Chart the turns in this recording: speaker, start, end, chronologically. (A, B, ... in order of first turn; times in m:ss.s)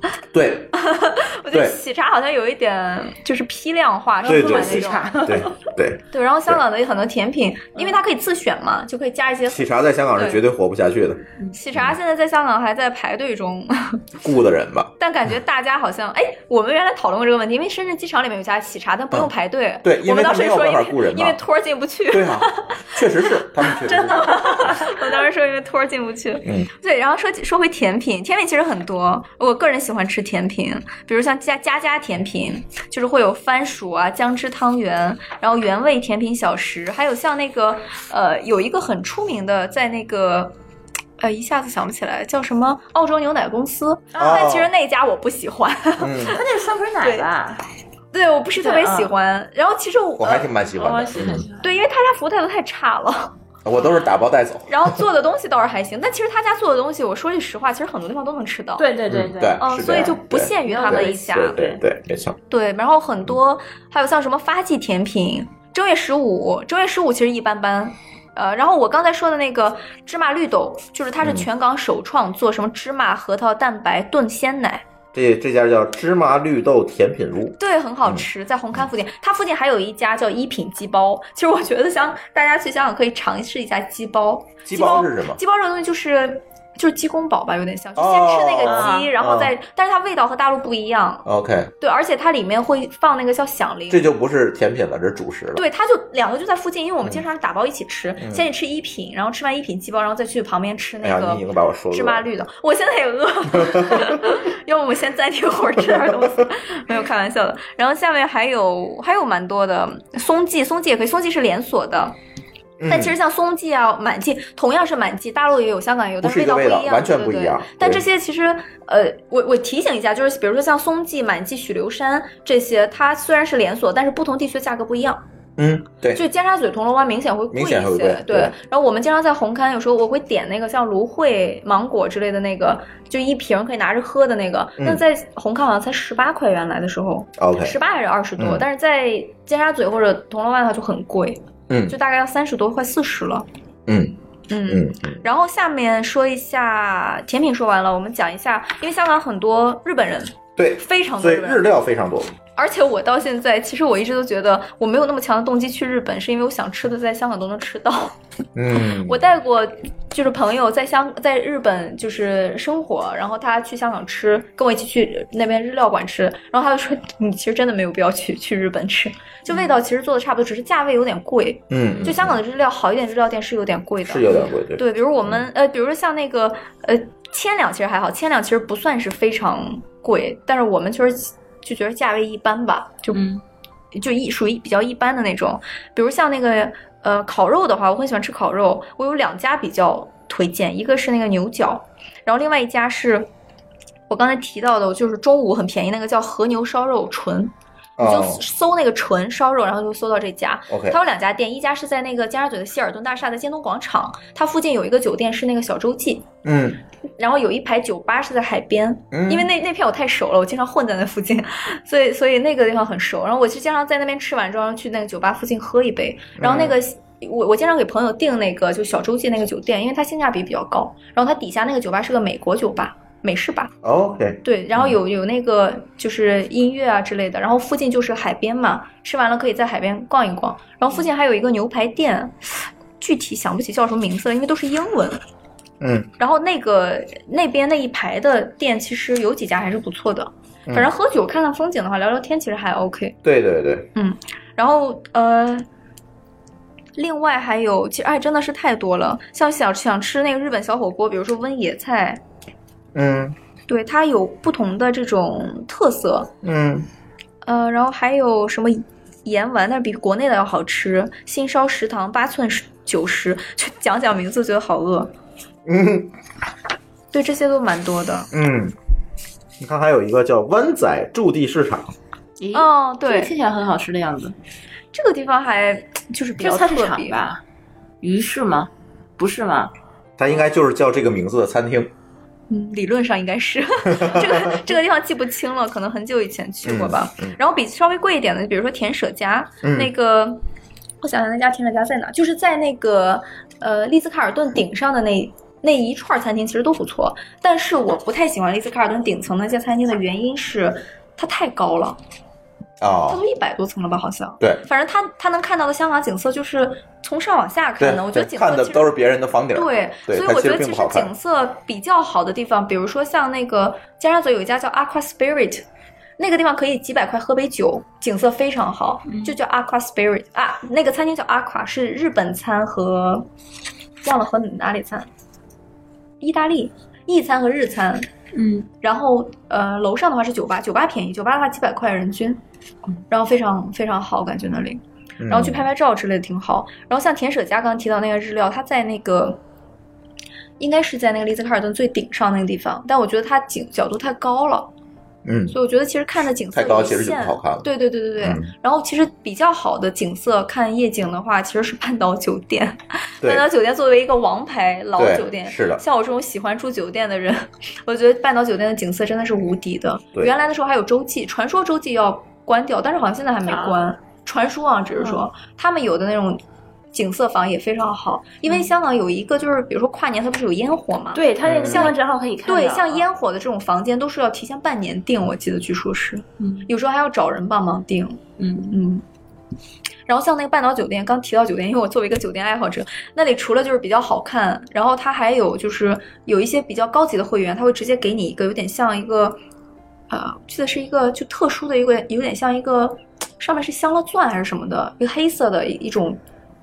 0:00.3-0:00.7 A
0:00.8-0:05.1 B
0:01.5-0:01.8 A
0:04.2-0:05.5 C
0:04.2-0:06.6 A
0:06.1-0:10.4 B
0:09.5-0:11.2 A
0:11.5-0:14.0 B
0:14.2-0:14.9 A
0:15.0-0:40.5 B
0:19.8-0:21.4 A
0:22.1-0:24.9 A
0:41.2-0:46.4 B
0:44.2-0:44.5 C
0:44.2-0:44.7 A
0:46.0-0:46.4 A
0:46.3-0:47.6 C
0:48.1-0:50.5 B
0:48.6-0:49.1 C
0:50.2-0:51.5 A
0:50.7-0:51.7 C
0:51.6-0:53.3 B
0:53.6-0:55.0 A
0:54.7-0:58.9 B
0:58.8-1:00.1 C
0:59.1-1:02.4 A
0:59.6-1:01.6 B
1:00.6-1:01.8 C
1:02.5-1:14.8 B
1:11.2-1:11.5 A
1:15.1-1:18.9 A
1:17.6-1:31.2 B
1:24.6-1:25.4 A
1:28.0-1:29.6 A
1:28.6-1:29.1 C
1:31.2-1:31.7 A
1:31.8-1:34.1 B
1:33.9-1:35.6 A
1:35.6-1:52.2 B
1:38.2-1:38.4 A
1:41.0-1:42.2 A
1:43.5-1:44.2 A
1:52.8-1:53.2 A
1:52.9-2:05.2 B
1:56.2-1:58.0 A
2:05.6-2:06.2 A
2:06.2-2:23.5 B
2:07.5-2:08.6 A
2:17.4-2:17.8 A
2:18.4-2:18.6 A
2:21.7-2:22.0 A
2:23.9-2:24.2 A
2:24.5-2:31.6 B
2:24.7-2:25.2 A
2:30.6-2:32.3 A
2:32.6-2:38.2 B
2:38.6-2:39.2 A
2:39.0-3:03.2 B
2:51.7-2:52.4 A
2:54.0-2:55.4 A
3:03.1-3:03.4 C
3:03.9-3:13.3 B
3:14.1-3:26.3 B
3:18.0-3:18.4 A
3:20.7-3:21.0 A
3:26.4-3:26.8 A
3:27.2-3:43.7 B
3:29.1-3:29.5 A
3:36.4-3:36.8 A
3:43.8-3:45.0 A
3:44.4-3:55.2 B
3:55.8-3:56.1 A
3:56.2-4:03.2 B
4:00.7-4:00.9 A
4:03.2-4:03.9 A
4:04.0-4:05.7 B
4:07.0-4:12.2 B
4:13.0-4:13.4 A
4:13.7-4:16.3 B
4:16.4-4:16.9 A
4:17.4-4:25.1 B
4:25.7-4:26.1 A
4:27.1-4:28.3 B
4:28.3-4:28.8 A
4:29.6-4:31.9 A
4:32.4-4:34.4 C
4:32.5-4:33.3 B
4:34.9-4:37.2 B
4:36.4-4:37.4 C
4:38.0-4:39.7 C
4:40.2-4:41.9 A
4:42.5-4:50.4 B
4:43.9-4:44.6 A
4:46.6-4:47.4 A
4:49.6-4:49.9 A
4:51.0-5:02.0 B
5:02.8-5:03.2 A
5:03.1-5:08.9 B
5:07.8-5:11.1 A
5:09.5-5:15.6 B
5:16.2-5:23.3 B
5:19.1-5:19.4 C
5:24.0-5:25.1 B
5:26.2-5:28.1 B
5:28.3-5:28.7 C
5:28.8-5:32.4 B
5:33.1-5:39.4 B
5:35.2-5:35.6 A
5:40.6-5:44.7 B
5:45.2-5:45.6 A
5:45.5-6:06.4 B
5:46.5-5:47.7 A
5:48.2-5:48.5 A
5:55.0-5:55.8 A
6:03.5-6:03.8 C
6:06.9-6:19.0 B
6:11.1-6:13.1 C
6:11.4-6:11.9 A
6:16.4-6:16.7 C
6:18.4-6:18.8 C
6:20.1-6:29.4 B
6:30.1-6:36.2 B